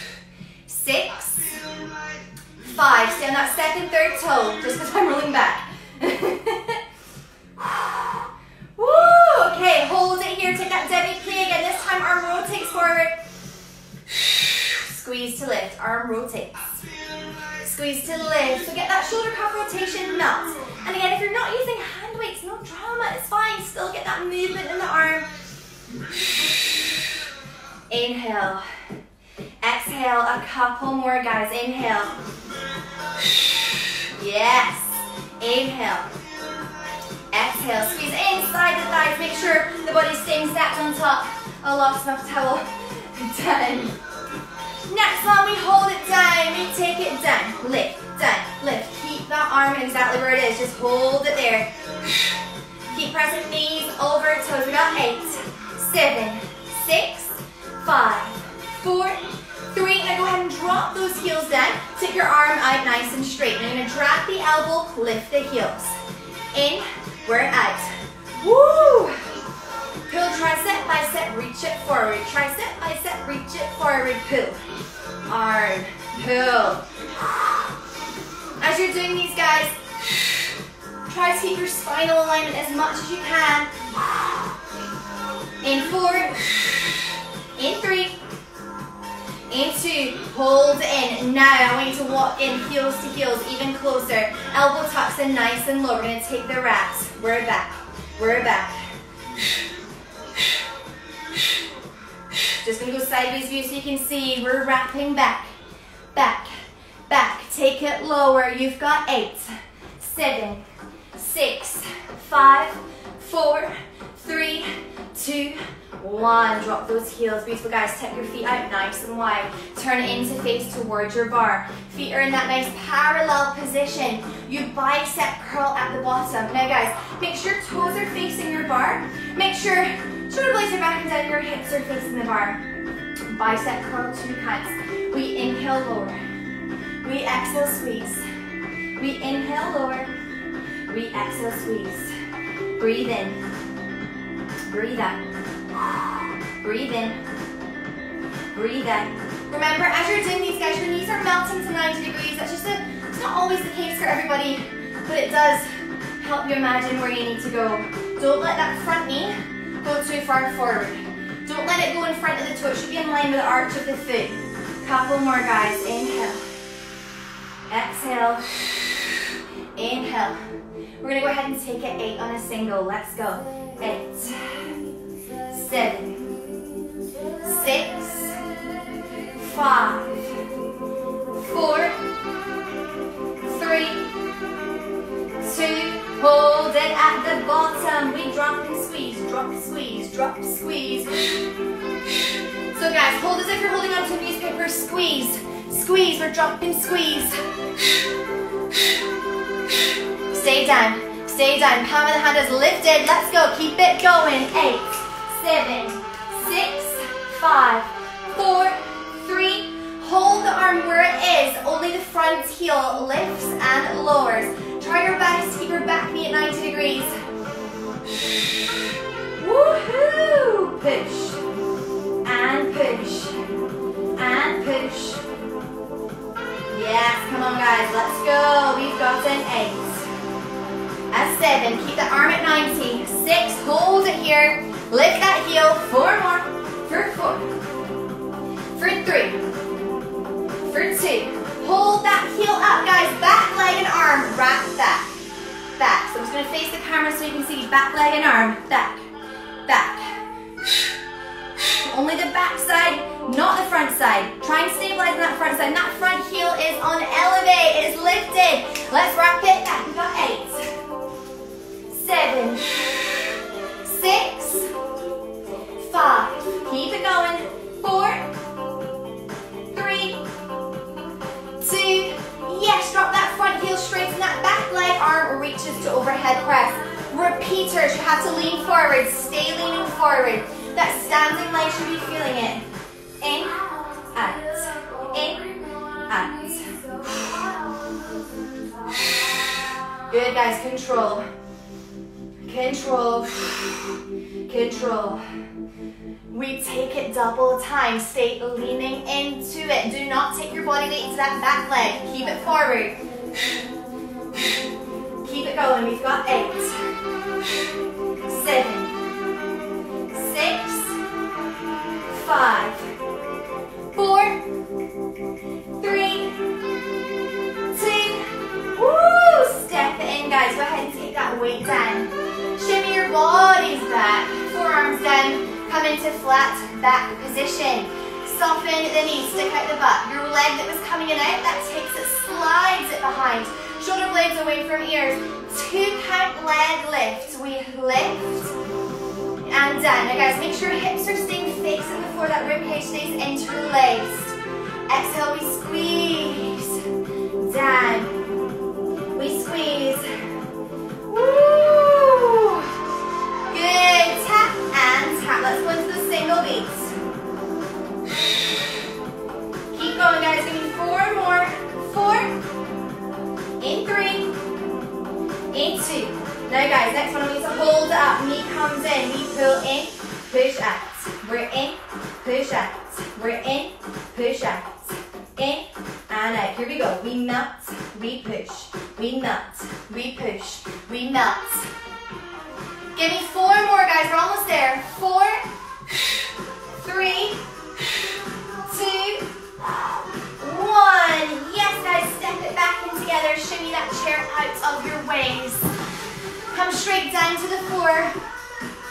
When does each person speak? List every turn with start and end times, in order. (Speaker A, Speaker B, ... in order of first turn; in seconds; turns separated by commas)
Speaker A: 0.7-1.6, Speaker A: 2.6-6.8, Speaker A: 7.6-13.2, Speaker A: 14.5-16.8, Speaker A: 17.6-25.3, Speaker A: 27.9-28.6, Speaker A: 29.6-32.2, Speaker A: 34.1-36.1, Speaker A: 37.3-44.0, Speaker A: 44.9-51.7, Speaker A: 52.9-66.0, Speaker A: 66.5-69.2, Speaker A: 70.1-74.6, Speaker A: 75.3-76.8, Speaker A: 78.6-79.8, Speaker A: 81.1-83.7, Speaker A: 85.6-86.5, Speaker A: 87.6-88.2, Speaker A: 89.5-98.9, Speaker A: 102.6-105.5, Speaker A: 106.1-106.5, Speaker A: 107.1-132.6, Speaker A: 133.3-136.2, Speaker A: 137.0-138.2, Speaker A: 139.0-140.1, Speaker A: 140.9-142.1, Speaker A: 142.8-143.4, Speaker A: 144.7-145.2, Speaker A: 146.6-147.2, Speaker A: 148.5-166.4, Speaker A: 167.7-168.5, Speaker A: 169.8-170.4, Speaker A: 171.0-174.8, Speaker A: 175.5-176.4, Speaker A: 177.4-178.4, Speaker A: 179.3-180.5, Speaker A: 181.3-182.0, Speaker A: 183.4-184.1, Speaker A: 185.4-191.2, Speaker A: 192.7-197.4, Speaker A: 200.3-217.2, Speaker A: 219.4-221.4, Speaker A: 222.2-223.4, Speaker A: 224.2-225.2, Speaker A: 226.7-230.1, Speaker A: 231.1-237.5, Speaker A: 238.8-239.4, Speaker A: 240.7-245.1, Speaker A: 245.8-249.1, Speaker A: 249.7-250.2, Speaker A: 251.7-260.7, Speaker A: 261.9-262.8, Speaker A: 263.8-264.7, Speaker A: 265.8-268.3, Speaker A: 269.7-270.2, Speaker A: 271.6-282.7, Speaker A: 283.2-287.4, Speaker A: 289.1-291.2, Speaker A: 292.5-295.2, Speaker A: 296.3-303.0, Speaker A: 305.2-306.8, Speaker A: 308.3-309.0, Speaker A: 310.1-311.0, Speaker A: 312.1-312.9, Speaker A: 313.9-314.4, Speaker A: 315.8-316.4, Speaker A: 317.7-338.6, Speaker A: 339.5-344.4, Speaker A: 344.9-346.9, Speaker A: 347.4-348.2, Speaker A: 349.1-350.1, Speaker A: 351.1-352.7, Speaker A: 353.5-356.9, Speaker A: 359.7-362.4, Speaker A: 363.6-364.3, Speaker A: 365.5-381.7, Speaker A: 382.9-385.5, Speaker A: 386.8-387.4, Speaker A: 388.6-389.3, Speaker A: 390.4-395.7, Speaker A: 396.5-398.2